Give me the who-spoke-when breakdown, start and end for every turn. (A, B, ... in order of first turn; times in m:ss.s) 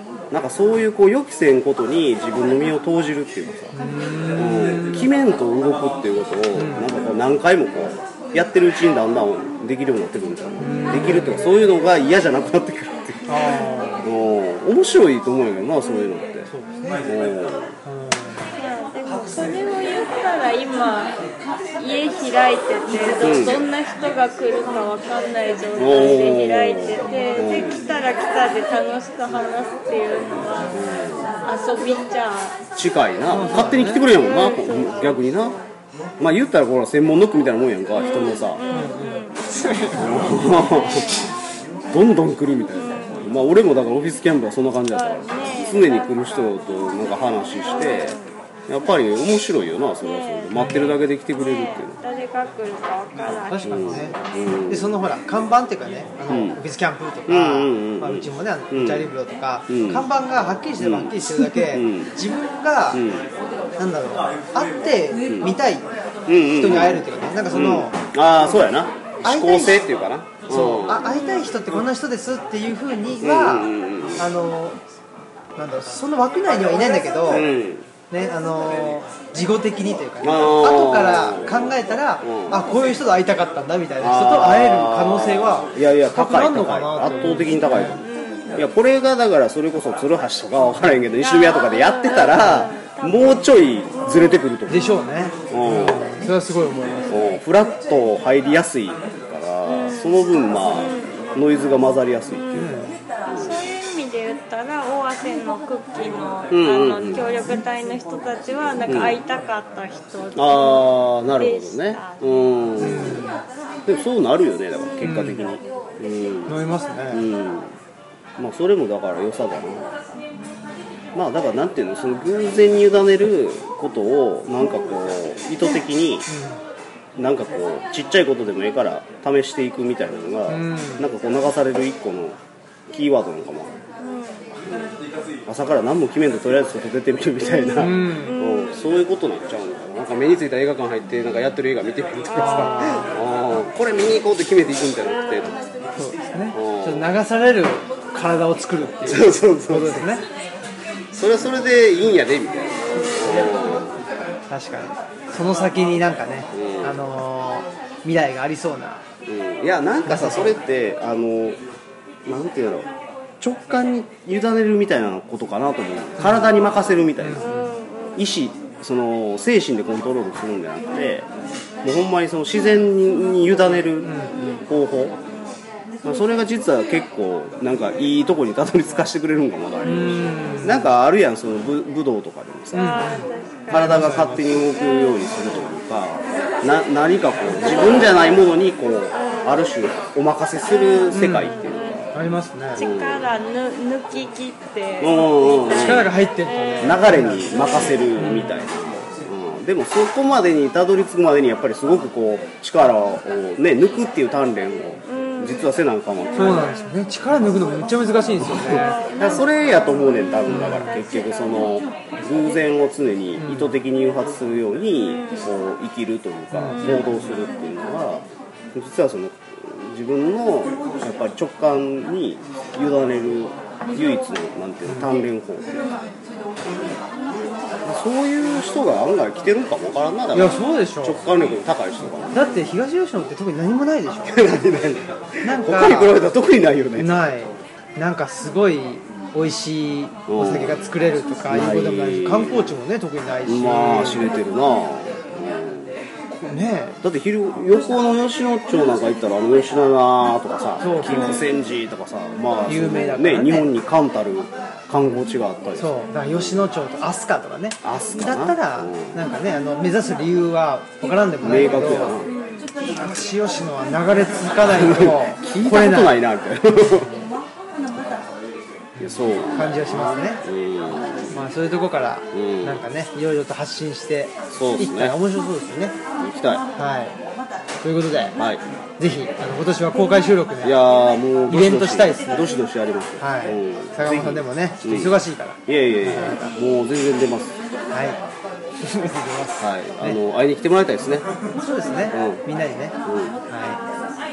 0:00.3-0:03.8 A
0:03.7-0:05.1 B
0:04.4-0:13.3 A
0:06.5-0:06.9 B
0:10.6-0:11.6 B
0:13.3-0:14.0 B
0:14.0-0:16.5 A
0:16.5-0:17.1 B
0:17.0-0:17.7 A
0:17.8-0:18.4 B
0:18.6-0:21.2 C
0:21.8-0:30.8 C
0:23.2-0:23.7 A
0:25.8-0:27.8 A
0:30.7-0:31.3 A
0:31.4-0:32.6 C
0:32.8-0:35.6 A
0:33.3-0:34.0 B
0:34.0-0:35.4 C
0:36.2-0:38.6 A
0:38.0-0:39.4 C
0:38.7-0:40.4 B
0:40.0-0:41.2 A
0:41.9-0:48.2 A
0:42.8-0:43.3 C
0:44.9-0:46.8 C
0:47.6-0:48.3 C
0:48.7-0:52.0 A
0:50.0-0:50.5 C
0:50.5-0:51.0 B
0:51.4-0:54.0 C
0:53.5-0:54.2 B
0:53.6-0:55.0 A
0:54.7-1:03.0 B
0:56.3-0:56.6 A
0:57.3-0:59.1 A
0:59.7-1:00.1 A
1:00.8-1:02.1 A
1:02.9-1:03.3 A
1:03.8-1:05.9 B
1:05.3-1:05.6 A
1:06.3-1:11.1 A
1:06.4-1:08.0 B
1:09.2-1:09.8 B
1:10.5-1:14.8 B
1:11.1-1:11.5 C
1:13.2-1:14.3 A
1:15.6-1:17.5 B
1:17.3-1:17.9 A
1:18.1-1:28.0 B
1:20.2-1:22.6 A
1:24.0-1:34.9 A
1:28.0-1:28.5 C
1:31.2-1:34.4 C
1:34.7-1:37.3 B
1:35.5-1:36.2 A
1:37.1-1:42.7 A
1:39.6-1:41.4 C
1:42.6-1:42.9 B
1:43.3-1:43.7 A
1:43.4-1:52.5 C
1:46.5-1:47.2 A
1:48.9-1:49.2 A
1:50.4-1:53.2 A
1:52.8-1:53.4 B
1:53.9-1:56.6 A
1:55.0-1:55.4 B
1:56.5-1:57.3 B
1:57.1-1:57.8 A
1:58.4-1:59.9 A
2:01.1-2:06.3 A
2:06.3-2:06.6 B
2:07.2-2:12.4 A
2:10.5-2:11.1 B
2:12.9-2:13.7 A
2:14.0-2:14.5 C
2:14.7-2:14.9 A
2:15.5-2:25.6 A
2:17.8-2:18.7 C
2:17.8-2:18.4 B
2:22.3-2:23.1 B
2:26.0-2:30.2 B
2:26.5-2:27.1 A
2:29.0-2:30.2 A
2:31.1-2:34.0 A
2:34.5-2:39.0 B
2:36.5-2:37.0 A
2:39.3-2:41.6 A
2:40.0-2:40.6 B
2:42.2-2:42.9 A
2:43.4-2:47.5 A
2:46.2-2:46.5 B
2:47.2-2:47.7 B
2:47.4-2:48.3 C
2:48.2-2:51.3 A
2:51.8-2:55.2 A
2:53.9-2:54.3 B
2:56.0-3:03.1 A
2:59.8-3:00.9 B
3:02.7-3:04.5 B
3:02.8-3:04.0 C
3:03.7-3:12.1 A
3:04.8-3:05.3 C
3:11.1-3:11.6 B
3:11.4-3:12.1 C
3:12.1-3:12.9 B
3:12.8-3:13.3 A
3:12.8-3:17.0 C
3:15.0-3:16.1 A
3:15.7-3:17.5 B
3:16.8-3:26.7 A
3:18.2-3:18.5 B
3:25.1-3:25.6 C
3:26.4-3:29.0 B
3:28.7-3:45.7 A
3:29.0-3:29.4 C
3:30.5-3:30.9 B
3:33.4-3:33.8 B
3:35.1-3:35.5 C
3:36.5-3:37.1 B
3:44.9-3:45.1 B
3:47.8-3:52.4 A
3:50.3-3:51.2 B
3:52.3-3:54.5 B
3:54.3-3:57.1 A
3:55.4-3:56.2 B
3:57.0-4:04.3 B
4:00.3-4:00.9 A
4:01.5-4:02.8 A
4:03.5-4:06.0 A
4:06.4-4:07.0 B
4:07.0-4:16.7 A
4:10.8-4:11.4 B
4:12.7-4:13.7 B
4:15.8-4:22.2 B
4:17.8-4:19.2 A
4:21.4-4:22.3 A
4:22.3-4:22.7 C
4:22.9-4:26.2 B
4:24.6-4:27.2 A
4:29.0-4:30.4 B
4:29.0-4:31.3 A
4:31.3-4:36.0 B
4:32.3-4:32.8 A
4:34.5-4:35.2 A
4:36.2-4:36.6 A
4:36.8-4:37.2 B
4:37.8-4:38.4 B
4:38.4-4:38.6 A
4:39.0-4:40.8 B
4:40.6-4:47.6 A
4:41.5-4:42.5 B
4:43.2-4:46.5 B
4:47.9-4:48.2 B
4:48.8-4:50.2 B
4:49.6-4:51.3 A
4:51.6-4:53.0 B
4:52.1-4:52.4 A
4:53.0-4:53.4 A
4:53.5-4:53.8 B